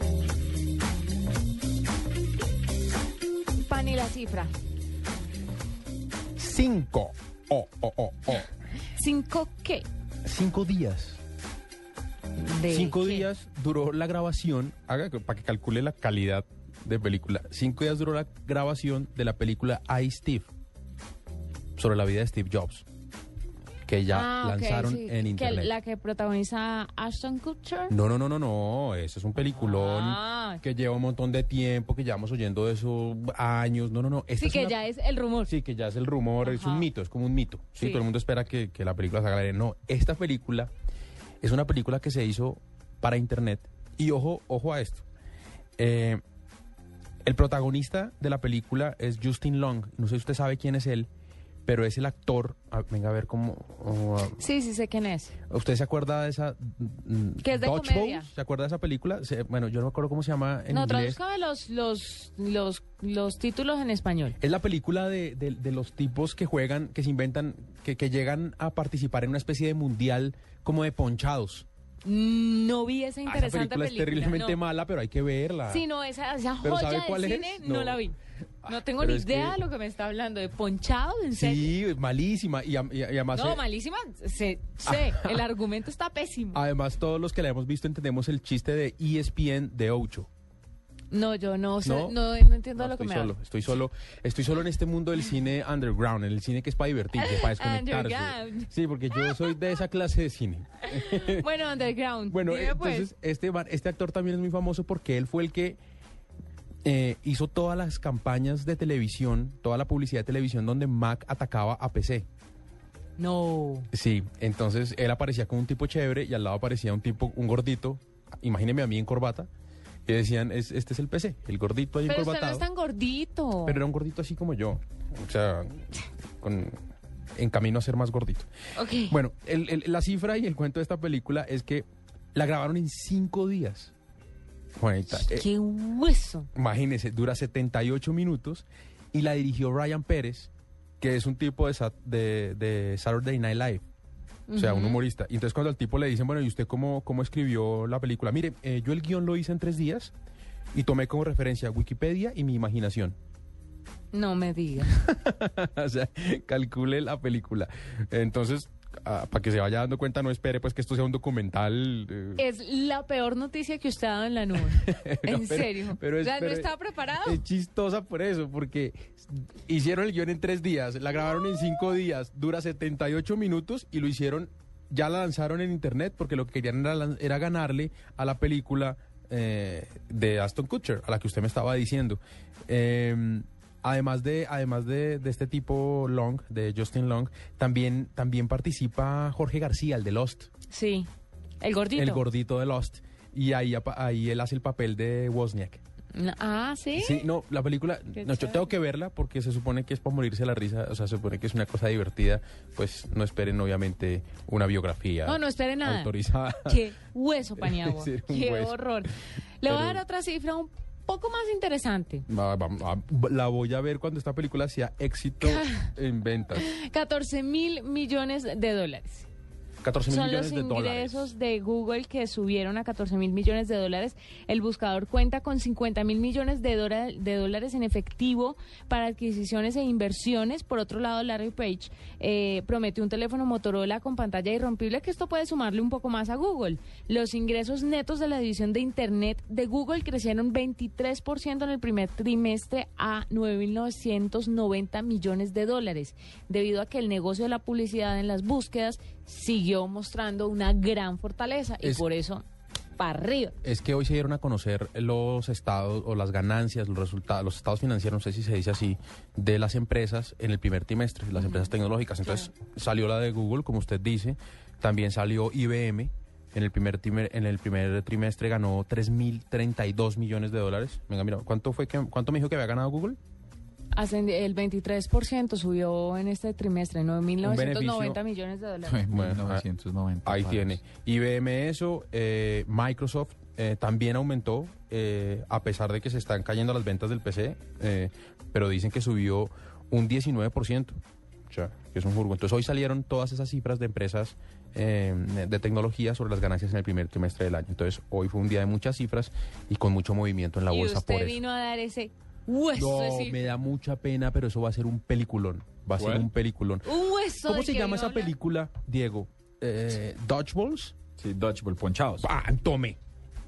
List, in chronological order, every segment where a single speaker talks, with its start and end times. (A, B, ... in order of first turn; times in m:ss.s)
0:03.6-0:04.5 A
0:06.4-0:08.5 B
0:08.9-0:09.9 A
0:10.2-0:11.2 B
0:12.4-0:13.3 A
0:12.7-0:20.5 B
0:21.8-0:22.8 B
0:23.8-0:25.7 B
0:24.1-0:28.0 A
0:27.9-0:34.8 B
0:29.5-0:30.6 A
0:34.4-0:35.5 A
0:35.4-0:40.7 B
0:36.4-0:36.9 A
0:41.4-0:45.0 B
0:45.8-0:46.2 B
0:47.2-0:51.1 B
0:51.6-0:54.4 B
0:54.4-0:55.3 A
0:55.5-1:01.2 B
0:57.4-0:58.3 A
1:00.7-1:04.4 A
1:04.4-1:11.6 B
1:12.0-1:14.6 A
1:13.2-1:15.8 B
1:15.7-1:21.7 A
1:16.6-1:18.0 B
1:18.6-1:19.6 B
1:21.3-1:23.6 B
1:23.3-1:26.6 A
1:24.9-1:25.4 B
1:26.5-1:30.3 B
1:31.1-1:33.3 A
1:31.8-1:32.2 B
1:32.8-1:41.4 B
1:37.2-1:39.5 A
1:40.9-1:43.1 A
1:42.3-1:45.8 B
1:46.8-1:52.2 B
1:53.2-1:53.9 A
1:53.9-1:59.5 B
2:00.1-2:02.7 B
2:02.0-2:03.8 A
2:03.6-2:06.8 B
2:07.4-2:08.5 B
2:08.7-2:09.2 A
2:09.1-2:13.9 B
2:14.8-2:15.5 B
2:15.1-2:16.5 A
2:16.5-2:23.8 B
2:24.5-2:25.0 A
2:24.5-2:30.1 B
2:30.7-2:33.2 B
2:34.1-2:34.9 A
2:34.8-2:42.4 B
2:42.4-2:47.4 A
2:44.5-3:10.5 B
3:10.7-3:11.1 A
3:11.6-3:12.2 A
3:11.9-3:15.8 B
3:16.1-3:17.2 A
3:16.9-3:26.8 B
3:18.2-3:18.6 A
3:25.2-3:26.1 A
3:26.6-3:32.2 A
3:27.6-3:28.8 B
3:29.6-3:30.0 B
3:32.3-3:36.6 B
3:35.4-3:35.9 A
3:36.5-3:39.3 A
3:39.8-3:41.3 B
3:40.0-4:12.4 A
4:13.0-4:13.6 A
4:13.6-4:33.2 B
4:21.4-4:21.7 A
4:33.9-4:39.0 A
4:37.4-4:38.2 B
4:38.8-4:40.8 C
4:39.1-4:39.6 B
4:40.2-5:01.4 B
5:00.7-5:03.5 A
5:02.7-5:06.8 B
5:06.0-5:06.3 C
5:06.8-5:08.3 A
5:07.4-5:10.9 B
5:11.2-5:12.2 C
5:12.2-5:13.0 B